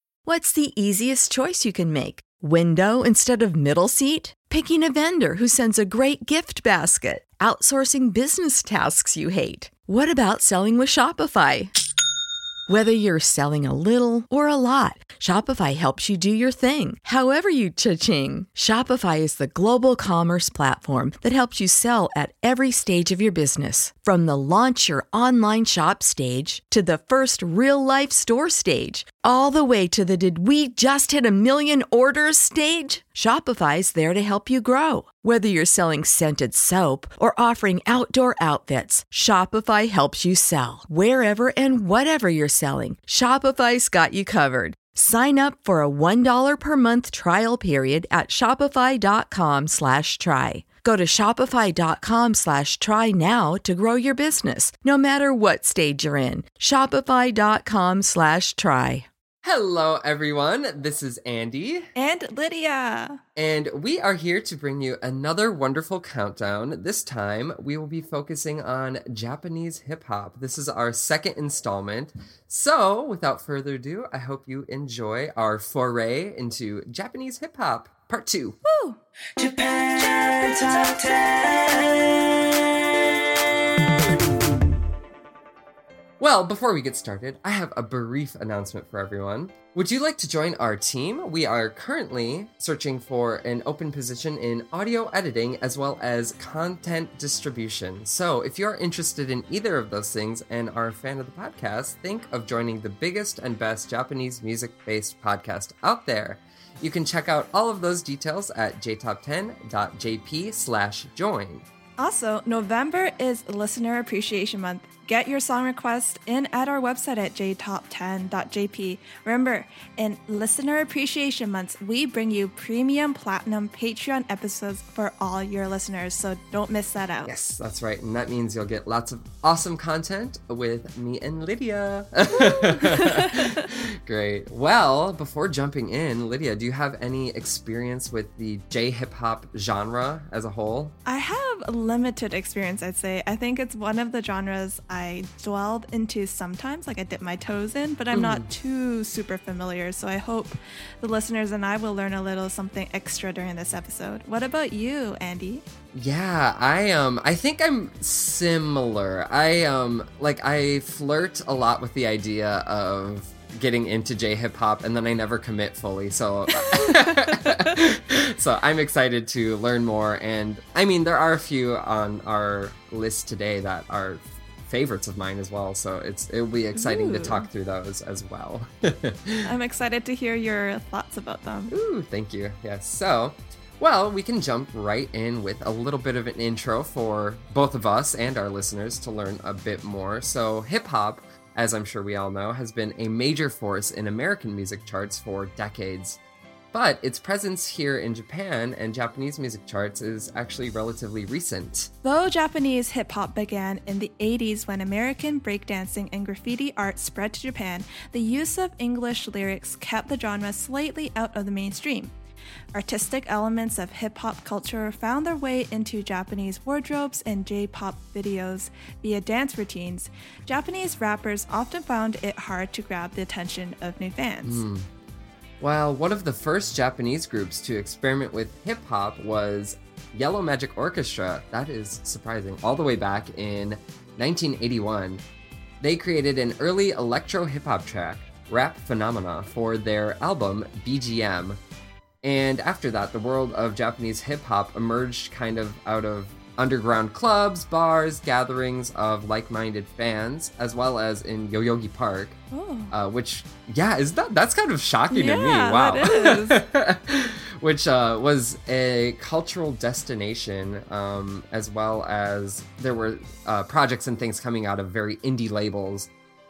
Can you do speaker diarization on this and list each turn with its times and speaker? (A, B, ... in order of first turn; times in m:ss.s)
0:00.2-0:11.7 A
0:12.7-0:59.1 A
0:59.4-1:01.9 B
1:02.0-1:03.2 C
1:03.4-1:18.6 B
1:18.6-1:19.0 C
1:19.4-1:21.9 D
1:26.2-1:51.6 B
1:52.0-2:07.3 C
2:07.2-2:20.9 B
2:12.4-2:13.6 C
2:21.0-2:35.6 C
2:28.1-2:28.5 B
2:35.9-2:59.5 B
2:56.7-2:57.4 C
2:59.4-3:01.7 C
3:01.7-3:16.2 B
3:16.7-3:21.9 B
3:22.0-3:32.1 C
3:32.7-3:44.6 C
3:44.4-3:44.9 B
3:45.6-3:55.2 B
3:55.8-4:01.6 B
4:02.2-4:12.4 B
4:12.5-4:12.9 C
4:12.9-4:26.1 B
4:15.1-4:16.6 C